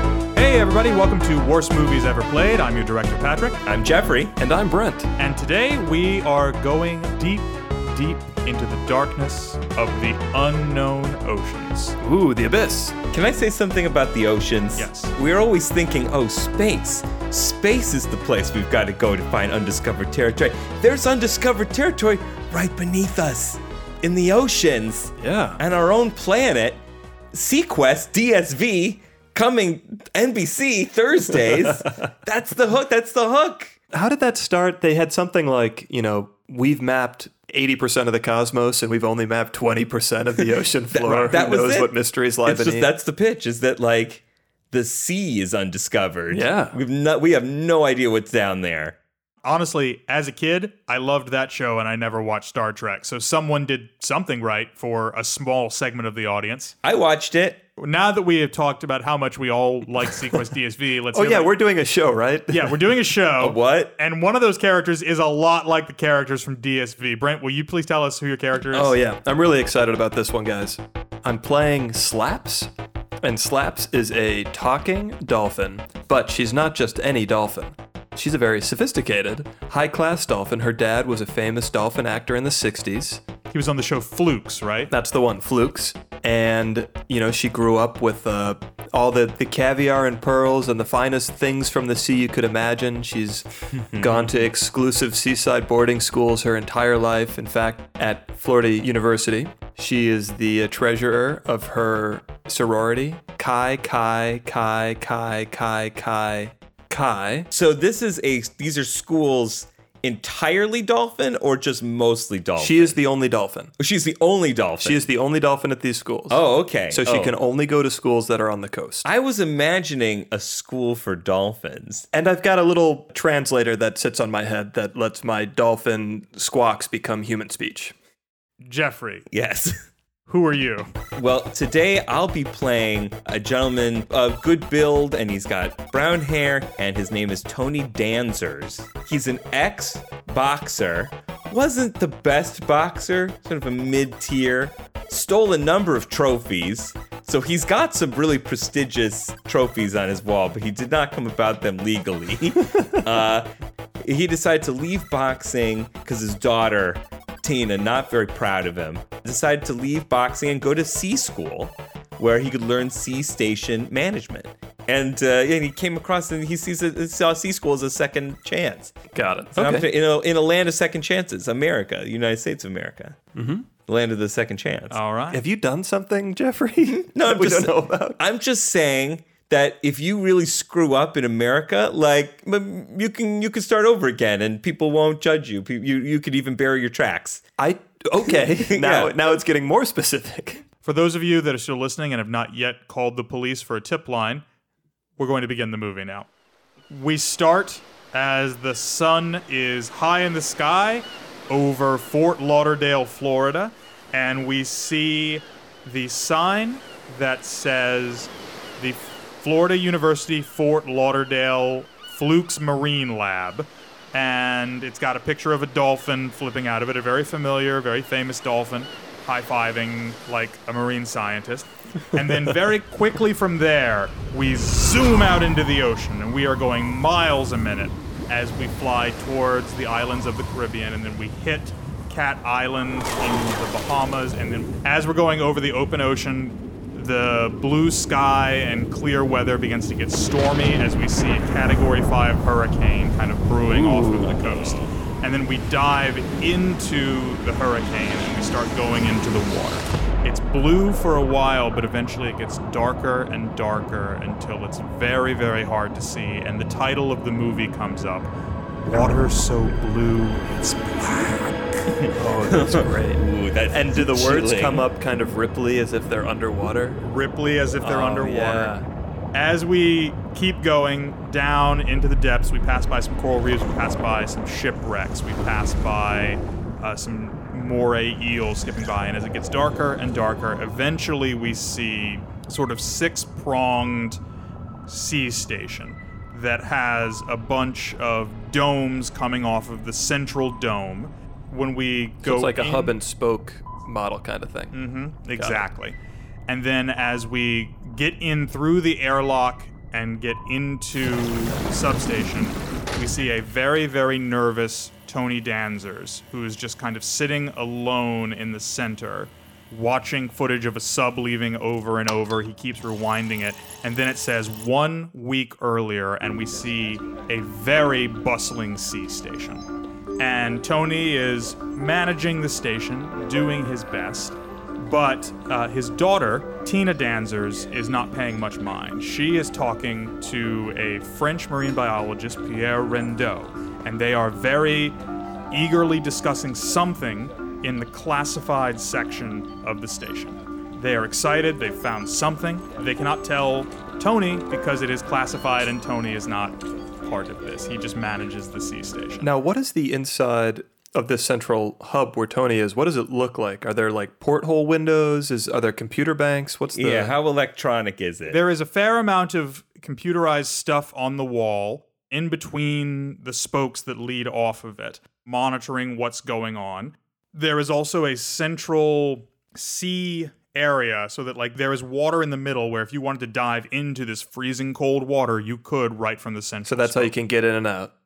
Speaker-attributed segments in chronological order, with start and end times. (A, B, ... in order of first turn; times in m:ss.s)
0:00.4-0:03.6 A
0:03.6-0:04.4 B
0:04.4-0:05.1 C
0:05.2-0:12.0 A
0:12.0-0:13.0 C
0:13.1-0:26.8 B
0:14.8-0:15.1 A
0:25.2-0:25.6 C
0:27.3-0:33.8 B
0:33.9-0:42.9 C
0:40.9-0:49.0 B
0:46.3-0:46.8 C
0:49.4-0:56.8 A
0:56.8-0:57.6 B
0:57.8-1:01.6 A
1:01.1-1:03.0 C
1:02.5-1:09.0 A
1:03.4-1:03.9 B
1:08.7-1:12.7 C
1:13.2-1:23.2 C
1:23.5-1:24.9 A
1:24.9-1:47.5 C
1:33.7-1:34.5 B
1:47.5-1:53.0 B
1:52.6-1:53.7 C
1:53.8-1:55.0 B
1:54.8-1:59.1 C
1:56.3-1:57.4 B
1:59.0-2:02.1 B
2:02.1-2:07.9 C
2:08.6-2:09.3 A
2:09.3-2:09.8 B
2:10.3-2:10.9 A
2:11.2-2:33.5 B
2:34.0-2:48.9 B
2:49.1-2:49.9 C
2:49.5-2:53.2 B
2:53.4-2:53.7 C
2:53.9-2:55.0 B
2:54.9-2:55.4 A
2:55.3-2:58.2 C
2:56.8-3:07.4 B
3:07.6-3:10.6 C
3:08.3-3:09.2 B
3:10.8-3:14.4 A
3:15.2-3:16.3 A
3:16.9-4:18.3 A
4:03.7-4:04.4 C
4:04.5-4:04.9 B
4:18.8-4:21.6 A
4:21.9-4:24.9 B
4:22.1-4:27.0 C
4:27.0-4:28.8 A
4:27.8-4:28.8 C
4:29.3-4:44.2 A
4:44.9-4:53.0 A
4:52.2-4:54.8 C
4:54.7-4:56.0 A
4:55.4-4:55.6 C
4:56.5-5:19.6 A
5:20.2-5:35.0 A
5:35.5-5:49.3 A
5:49.2-5:57.2 C
5:56.7-5:58.4 B
5:58.3-6:17.1 A
6:16.7-6:17.9 C